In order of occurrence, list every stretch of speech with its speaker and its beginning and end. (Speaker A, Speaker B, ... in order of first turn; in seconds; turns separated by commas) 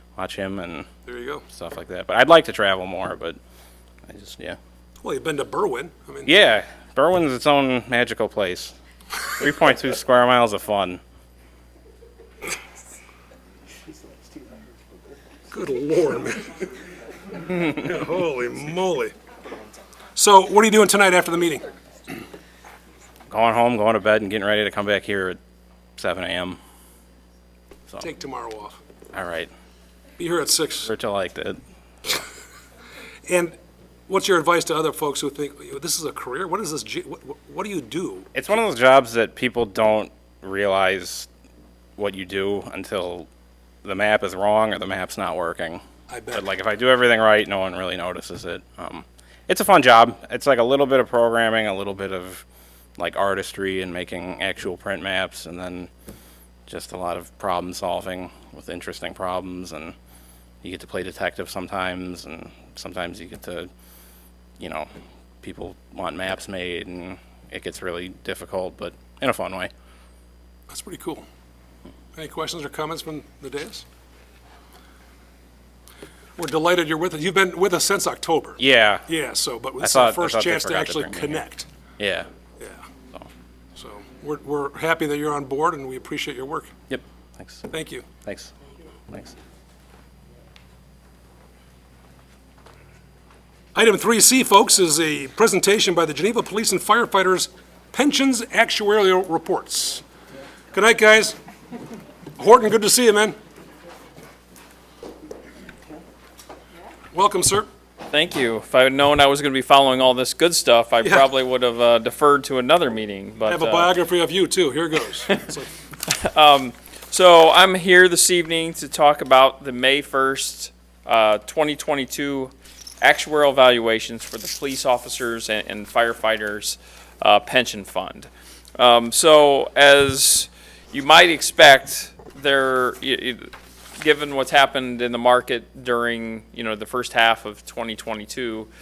Speaker A: 0.2-0.9, Speaker B: 1.1-1.4, Speaker A: 1.5-3.4, Speaker A: 4.1-4.6, Speaker B: 5.0-6.3, Speaker A: 6.3-8.8, Speaker A: 9.3-11.0, Speaker B: 15.5-16.7, Speaker B: 17.5-19.1, Speaker B: 20.1-21.7, Speaker A: 23.3-25.4, Speaker A: 26.0-26.6, Speaker B: 28.0-28.8, Speaker A: 29.1-29.5, Speaker B: 30.2-30.9, Speaker A: 30.9-32.2, Speaker B: 33.3-33.5, Speaker B: 34.1-38.3, Speaker A: 38.3-41.3, Speaker A: 42.0-43.3, Speaker A: 43.8-52.4, Speaker B: 46.1-46.5, Speaker A: 53.0-55.9, Speaker A: 56.7-60.0, Speaker A: 60.6-63.7, Speaker A: 64.6-64.9, Speaker A: 65.4-69.7, Speaker B: 70.7-71.2, Speaker B: 72.2-73.8, Speaker B: 76.4-81.7, Speaker A: 78.6-79.1, Speaker A: 79.8-81.4, Speaker A: 82.0-82.3, Speaker B: 82.6-82.8, Speaker B: 83.8-86.7, Speaker A: 86.9-87.7, Speaker B: 87.7-88.1, Speaker A: 88.2-88.5, Speaker A: 89.1-89.3, Speaker B: 93.8-100.0, Speaker B: 100.7-101.4, Speaker B: 102.4-103.4, Speaker B: 107.1-107.7, Speaker C: 108.1-113.9, Speaker B: 111.0-111.3, Speaker B: 113.5-115.7, Speaker C: 116.1-138.7